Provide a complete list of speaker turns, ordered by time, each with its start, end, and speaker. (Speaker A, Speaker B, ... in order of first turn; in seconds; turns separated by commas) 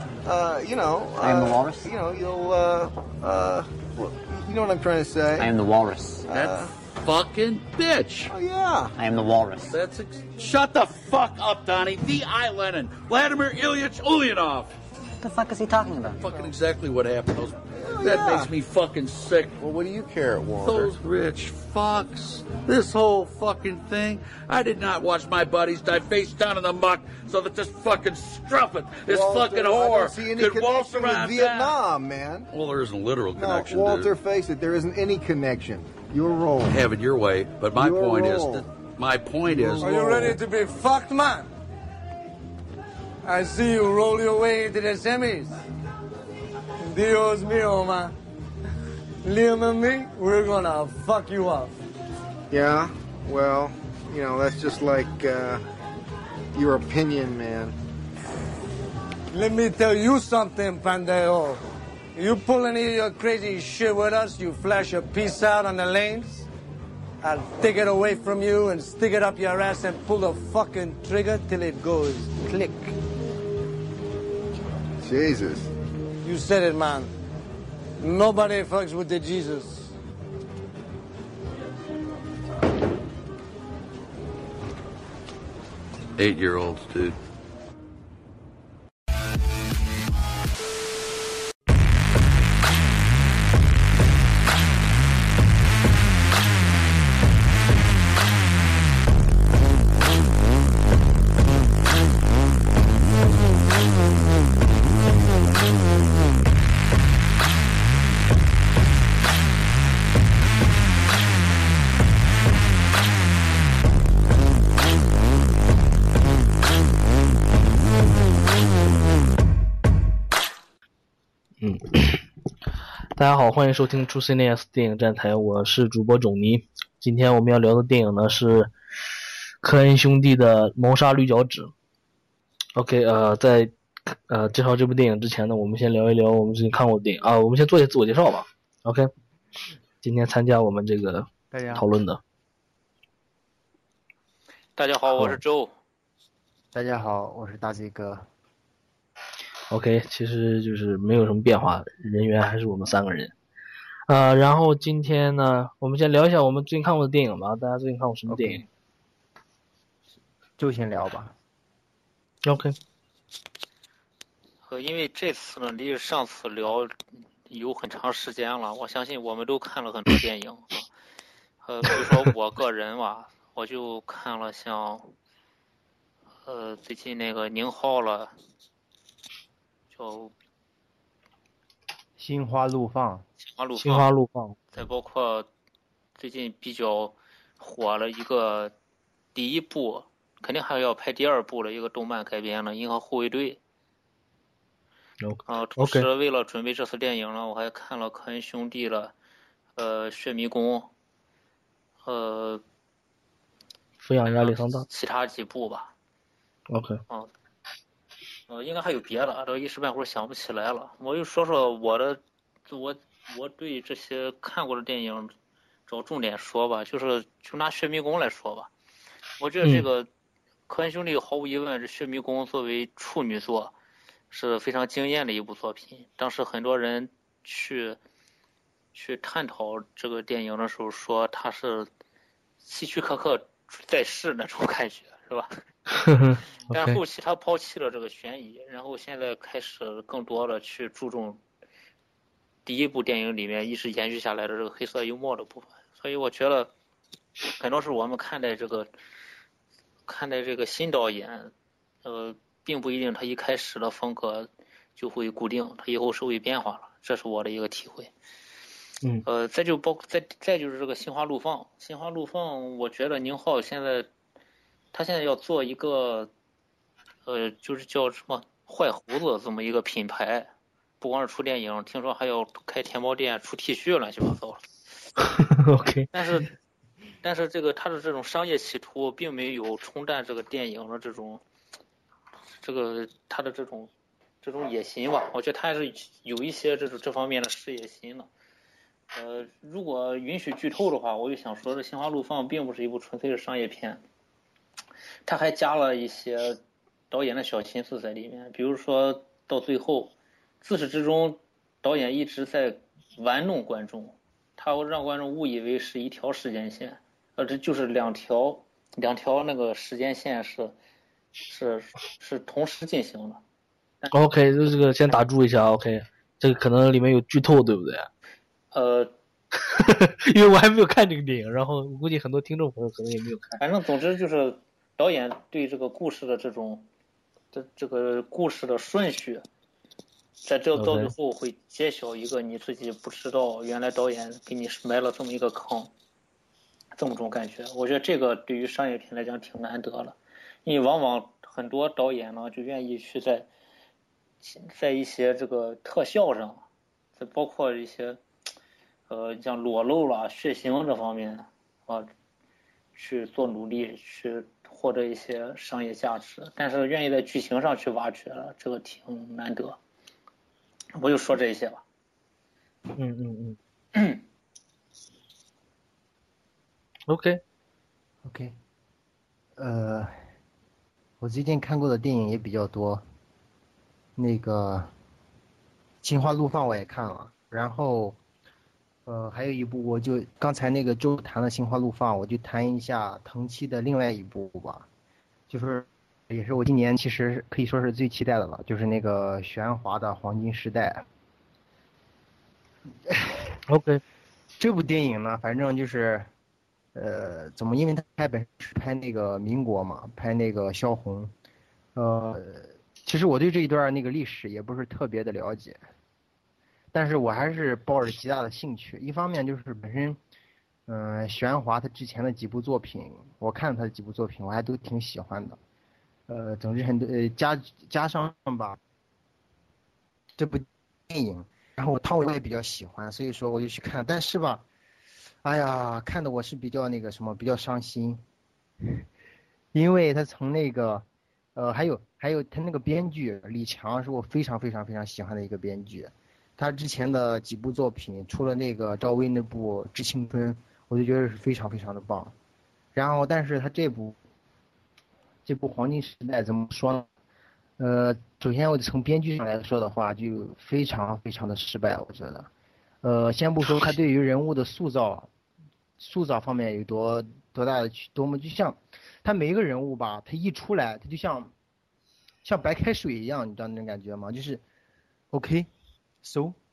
Speaker A: 0.2-5.5, Speaker B: 1.2-1.9, Speaker B: 5.3-6.2, Speaker A: 6.2-6.7, Speaker C: 6.3-8.3, Speaker A: 8.3-8.9, Speaker B: 9.0-9.8, Speaker C: 9.7-14.7, Speaker B: 15.2-16.2, Speaker C: 16.2-19.6, Speaker A: 17.7-18.5, Speaker A: 19.6-20.9, Speaker C: 20.6-31.8, Speaker A: 29.1-32.5, Speaker C: 32.5-34.1, Speaker A: 33.4-36.9, Speaker C: 36.6-40.3, Speaker A: 37.7-38.6, Speaker A: 39.4-40.4, Speaker D: 39.8-41.5, Speaker D: 43.2-45.6, Speaker D: 46.9-48.1, Speaker D: 49.2-51.8, Speaker A: 52.5-55.6, Speaker A: 56.5-57.8, Speaker D: 59.3-61.6, Speaker D: 62.1-66.5, Speaker D: 67.2-73.0, Speaker A: 75.0-75.7, Speaker D: 76.2-77.1, Speaker D: 78.0-79.9, Speaker C: 86.2-87.2, Speaker E: 121.6-122.2, Speaker E: 123.1-128.7, Speaker E: 129.6-131.7, Speaker E: 132.8-139.1, Speaker E: 140.0-142.2, Speaker F: 141.5-141.8, Speaker G: 144.8-145.7, Speaker F: 146.7-148.2, Speaker E: 149.7-153.3, Speaker E: 154.1-158.6, Speaker F: 158.3-158.6, Speaker F: 160.6-161.3, Speaker E: 162.4-162.8, Speaker G: 164.7-166.9, Speaker G: 167.5-170.9, Speaker G: 171.6-175.1, Speaker G: 176.4-178.3, Speaker G: 179.9-180.3, Speaker F: 182.2-183.2, Speaker G: 183.4-184.1, Speaker E: 183.8-184.6, Speaker G: 184.7-185.5, Speaker G: 186.2-188.7, Speaker G: 189.3-193.6, Speaker E: 195.2-196.1, Speaker G: 195.4-199.1, Speaker G: 199.8-200.9, Speaker G: 202.0-202.6, Speaker E: 204.0-204.8, Speaker G: 204.2-205.9, Speaker E: 206.7-207.0, Speaker G: 208.5-215.3, Speaker G: 215.9-218.7, Speaker G: 219.4-220.1, Speaker G: 220.7-223.7, Speaker G: 224.3-228.0, Speaker G: 228.9-231.9, Speaker G: 232.6-235.5, Speaker E: 235.9-237.0, Speaker G: 236.7-241.4, Speaker G: 242.7-246.7, Speaker G: 247.5-248.9, Speaker G: 250.1-251.5, Speaker G: 252.0-258.1, Speaker G: 259.2-264.1, Speaker G: 264.9-266.3, Speaker G: 267.2-270.5, Speaker G: 271.0-274.7, Speaker E: 275.2-276.4, Speaker G: 276.1-276.5, Speaker G: 277.2-281.4, Speaker G: 282.6-283.9, Speaker G: 284.4-288.3, Speaker G: 289.1-294.0, Speaker G: 295.2-296.6, Speaker G: 297.1-310.7, Speaker G: 311.5-313.4, Speaker E: 314.1-318.1, Speaker G: 318.7-319.1, Speaker E: 319.6-323.6, Speaker G: 323.6-326.9, Speaker G: 327.5-329.4, Speaker G: 330.4-335.9, Speaker E: 330.8-331.1, Speaker G: 336.9-343.5, Speaker G: 344.4-346.6, Speaker G: 347.2-348.2, Speaker G: 349.1-352.1, Speaker G: 352.9-359.8, Speaker G: 360.9-361.8, Speaker E: 362.9-363.6, Speaker G: 363.9-364.2, Speaker E: 367.1-367.4, Speaker F: 368.2-368.5, Speaker F: 369.6-370.1, Speaker F: 371.2-373.0, Speaker F: 374.2-374.9, Speaker F: 376.0-378.2, Speaker F: 379.1-384.9, Speaker F: 385.5-391.1, Speaker F: 393.1-393.5, Speaker E: 393.7-394.0, Speaker F: 394.6-396.3, Speaker F: 396.9-401.3, Speaker F: 401.9-405.8, Speaker F: 406.9-410.2, Speaker F: 410.9-415.6, Speaker F: 416.3-418.8, Speaker F: 420.4-424.6, Speaker F: 425.4-428.2, Speaker F: 429.7-442.3, Speaker F: 442.9-444.2, Speaker F: 445.4-447.1, Speaker F: 447.8-452.5, Speaker F: 453.0-455.3, Speaker F: 456.0-461.5, Speaker F: 462.4-464.6, Speaker F: 465.3-465.7, Speaker F: 466.2-466.6